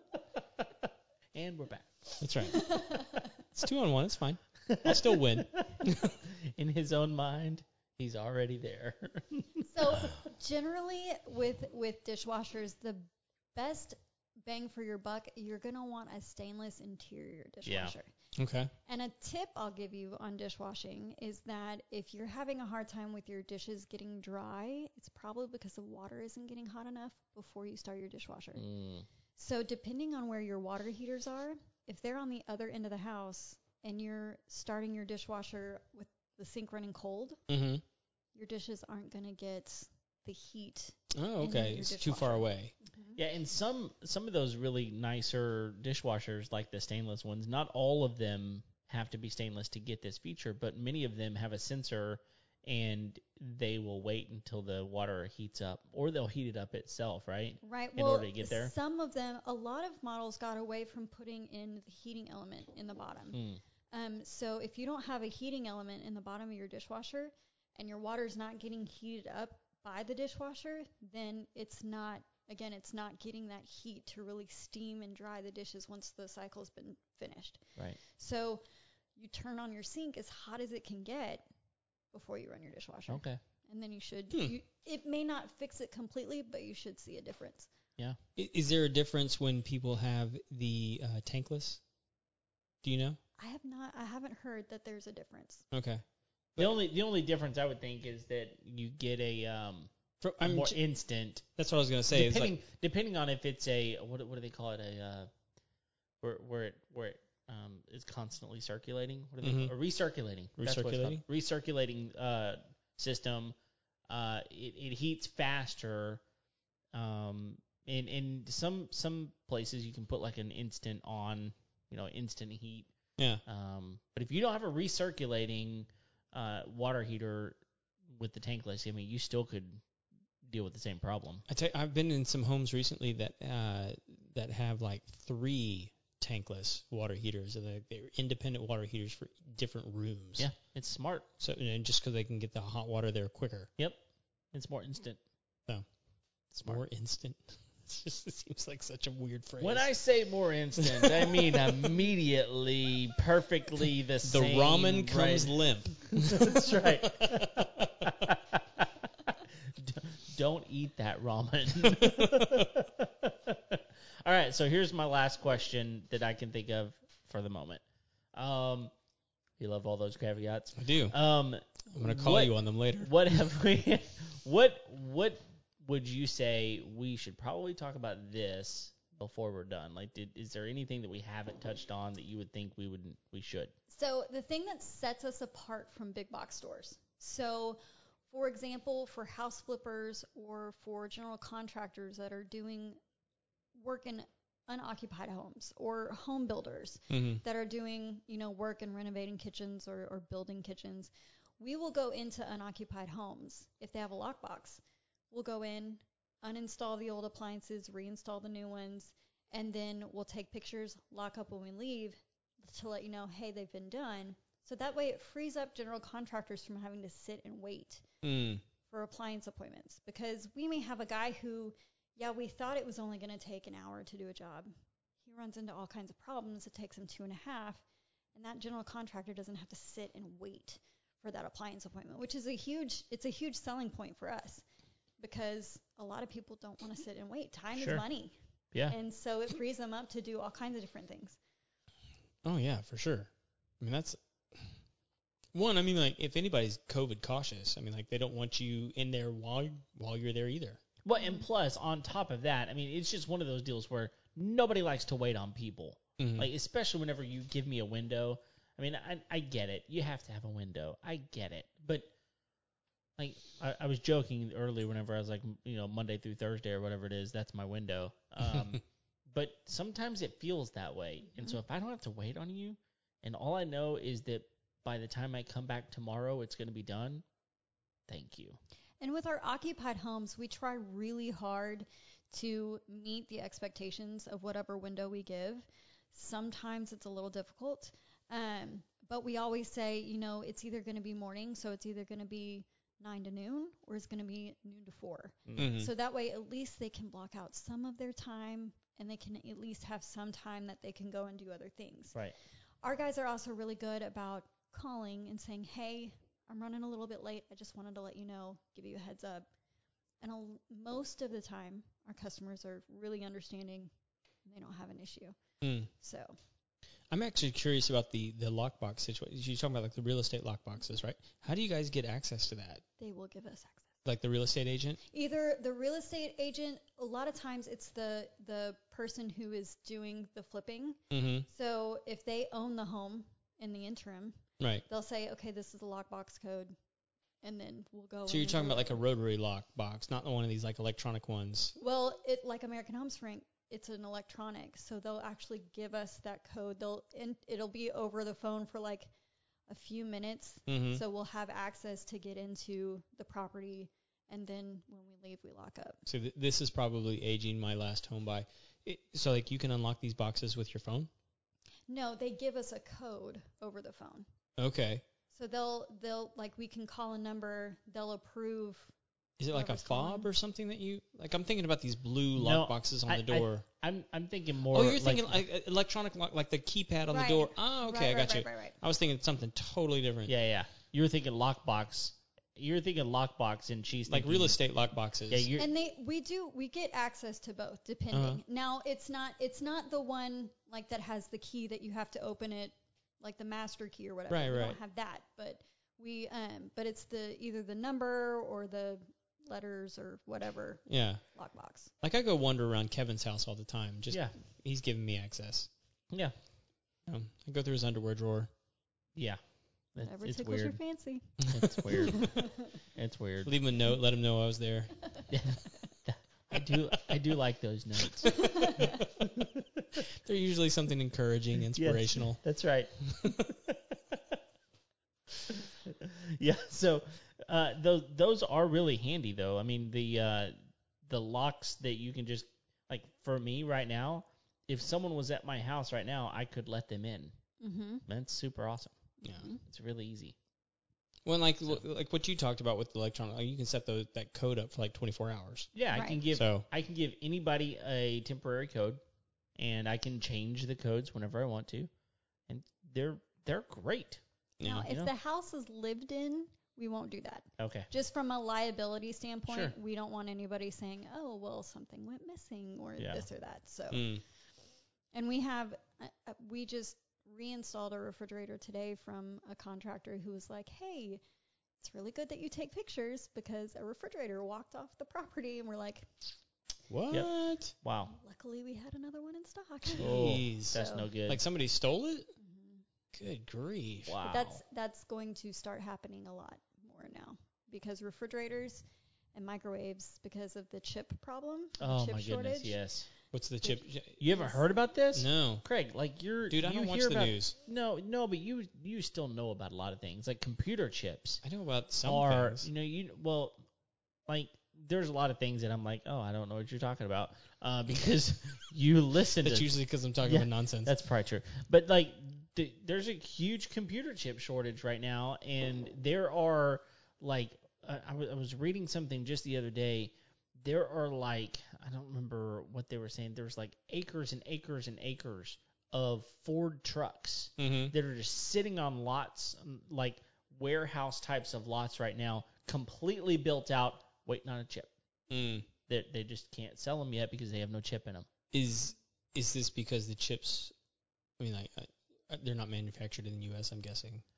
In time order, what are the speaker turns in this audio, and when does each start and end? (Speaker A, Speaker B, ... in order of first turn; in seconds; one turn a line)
Speaker A: 1.3-2.2
Speaker B: 2.2-2.8
Speaker C: 2.5-3.3
Speaker B: 3.5-6.2
Speaker A: 4.7-10.0
Speaker C: 9.7-18.1
Speaker A: 17.7-17.9
Speaker B: 18.4-18.7
Speaker C: 18.9-28.6
Speaker A: 28.6-29.1
Speaker C: 29.4-37.4
Speaker B: 37.5-37.8
Speaker C: 38.4-43.2
Speaker B: 41.1-42.7
Speaker A: 43.2-58.7
Speaker C: 57.6-78.6
Speaker A: 63.3-63.6
Speaker C: 79.2-81.5
Speaker C: 82.1-87.7
Speaker A: 83.1-83.4
Speaker B: 88.4-91.8
Speaker B: 92.8-93.2
Speaker C: 93.4-95.7
Speaker B: 95.7-96.0
Speaker A: 96.6-99.9
Speaker B: 100.2-100.8
Speaker A: 100.4-101.5
Speaker B: 101.6-102.5
Speaker A: 102.1-105.3
Speaker A: 106.2-113.5
Speaker B: 109.4-109.7
Speaker B: 110.6-111.2
Speaker A: 114.1-116.2
Speaker A: 116.9-122.9
Speaker A: 123.5-127.6
Speaker A: 128.1-129.8
Speaker A: 130.4-131.4
Speaker B: 131.5-140.5
Speaker A: 140.4-141.3
Speaker B: 141.4-143.7
Speaker A: 144.5-145.2
Speaker A: 146.5-146.8
Speaker B: 146.6-149.9
Speaker A: 149.6-158.9
Speaker B: 150.8-151.9
Speaker B: 154.2-158.1
Speaker A: 159.7-167.8
Speaker B: 161.8-162.7
Speaker A: 168.3-168.9
Speaker A: 169.6-183.7
Speaker B: 170.8-171.2
Speaker B: 171.9-173.1
Speaker C: 183.9-187.8
Speaker C: 188.3-193.0
Speaker C: 193.8-218.1
Speaker B: 197.1-197.4
Speaker B: 218.2-218.6
Speaker C: 218.9-224.7
Speaker C: 225.2-227.8
Speaker C: 228.3-234.6
Speaker C: 235.2-238.3
Speaker A: 237.8-238.0
Speaker C: 238.9-241.4
Speaker B: 242.4-244.8
Speaker B: 245.5-250.8
Speaker A: 251.0-262.1
Speaker C: 251.2-251.4
Speaker B: 256.2-256.5
Speaker A: 263.2-277.2
Speaker A: 278.1-278.6
Speaker C: 279.0-302.2
Speaker A: 295.5-295.7
Speaker B: 295.6-295.9
Speaker C: 302.8-309.5
Speaker C: 310.2-313.9
Speaker C: 314.4-315.4
Speaker B: 315.6-315.9
Speaker C: 316.0-316.4
Speaker B: 317.1-322.8
Speaker C: 323.0-323.9
Speaker B: 324.1-325.0
Speaker C: 325.1-336.8
Speaker B: 331.1-331.5
Speaker B: 334.6-334.9
Speaker C: 337.4-339.0
Speaker B: 338.3-341.8
Speaker C: 341.8-349.1
Speaker C: 349.7-356.1
Speaker B: 350.7-351.0
Speaker B: 356.1-361.1
Speaker C: 361.9-364.3
Speaker B: 364.6-365.0
Speaker C: 365.3-368.9
Speaker B: 369.4-373.6
Speaker C: 369.5-370.3
Speaker A: 372.4-375.4
Speaker B: 374.7-380.3
Speaker C: 377.1-378.8
Speaker A: 380.3-384.6
Speaker B: 384.1-385.5
Speaker A: 385.3-385.7
Speaker C: 385.6-401.9
Speaker B: 388.1-388.4
Speaker B: 394.3-394.8
Speaker B: 400.9-401.2
Speaker B: 402.0-405.7
Speaker B: 407.1-408.5
Speaker A: 409.9-410.8
Speaker C: 410.0-412.7
Speaker A: 411.4-413.5
Speaker B: 413.4-415.1
Speaker A: 415.3-419.8
Speaker B: 418.2-419.3
Speaker C: 418.3-419.0
Speaker B: 420.0-422.4
Speaker A: 421.7-424.4
Speaker B: 423.1-423.4
Speaker A: 425.5-430.6
Speaker A: 431.1-437.4
Speaker C: 437.6-438.1
Speaker A: 438.1-438.9
Speaker A: 439.6-440.4
Speaker B: 441.2-445.7
Speaker A: 445.8-449.0
Speaker C: 445.9-446.2
Speaker B: 446.3-446.7
Speaker A: 449.6-451.9
Speaker A: 452.5-454.2
Speaker B: 454.6-454.9
Speaker C: 454.6-464.2
Speaker A: 454.8-455.1
Speaker A: 457.6-457.9
Speaker A: 459.5-459.7
Speaker A: 463.0-463.2
Speaker B: 463.9-464.2
Speaker C: 465.1-471.2
Speaker C: 471.8-476.1
Speaker B: 476.9-477.7
Speaker A: 477.1-478.1
Speaker C: 478.1-480.2
Speaker B: 479.9-482.3
Speaker A: 479.9-481.4
Speaker C: 480.7-481.1
Speaker C: 482.4-482.8
Speaker B: 483.1-484.2
Speaker A: 484.1-484.6
Speaker C: 484.2-492.8
Speaker A: 491.8-493.1
Speaker B: 493.3-494.2
Speaker C: 493.6-494.6
Speaker A: 494.2-501.4
Speaker B: 495.1-495.6
Speaker B: 496.5-497.6
Speaker B: 501.4-502.7
Speaker A: 502.0-503.6
Speaker A: 504.3-509.7
Speaker B: 509.4-510.9
Speaker A: 510.2-534.9
Speaker B: 527.6-527.9
Speaker B: 535.3-535.7
Speaker A: 535.9-538.3
Speaker B: 538.5-540.7
Speaker B: 541.4-544.2